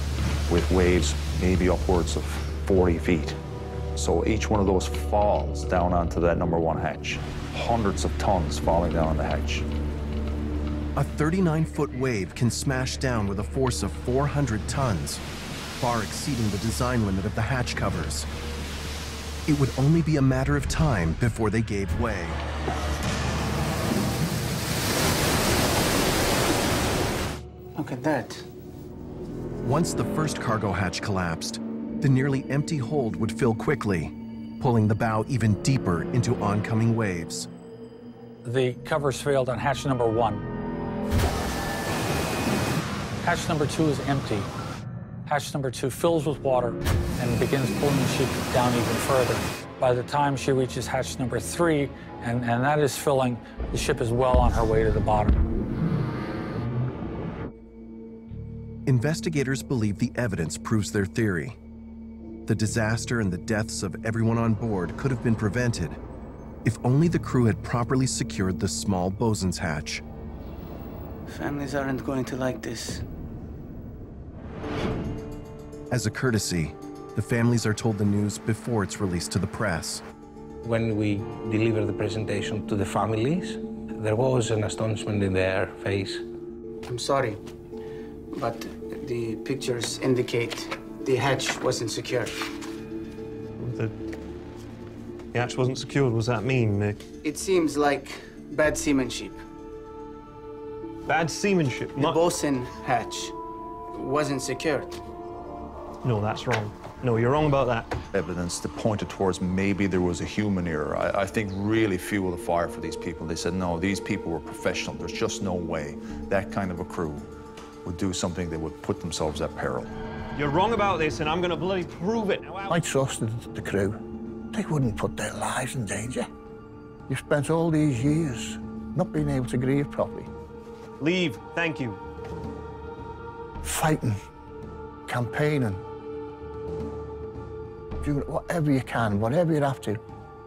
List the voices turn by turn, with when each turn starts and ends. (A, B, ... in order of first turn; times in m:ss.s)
0:00.5-0:03.4 A
0:03.9-0:09.7 A
0:11.0-0:15.2 B
0:15.8-0:18.3 B
0:19.4-0:22.4 B
0:27.8-0:28.4 C
0:29.6-0:37.5 B
0:38.4-0:40.5 D
0:43.2-0:44.5 D
0:45.3-0:55.4 D
0:58.8-1:01.6 B
1:02.4-1:06.0 B
1:06.6-1:10.0 B
1:11.3-1:13.0 C
1:15.9-1:20.0 B
1:20.6-1:26.2 E
1:26.9-1:27.4 C
1:28.3-1:32.5 C
1:33.6-1:34.0 F
1:35.3-1:37.0 F
1:37.2-1:39.4 C
1:41.0-1:42.2 F
1:41.9-1:43.3 C
1:43.9-1:45.0 C
1:46.0-1:47.9 F
1:48.1-1:57.3 A
1:57.8-1:59.9 A
2:00.3-2:02.8 F
2:02.7-2:04.0 G
2:04.5-2:06.3 G
2:07.1-2:10.3 G
2:11.0-2:12.0 F
2:13.6-2:14.2 G
2:15.1-2:15.8 G
2:18.0-2:20.0 G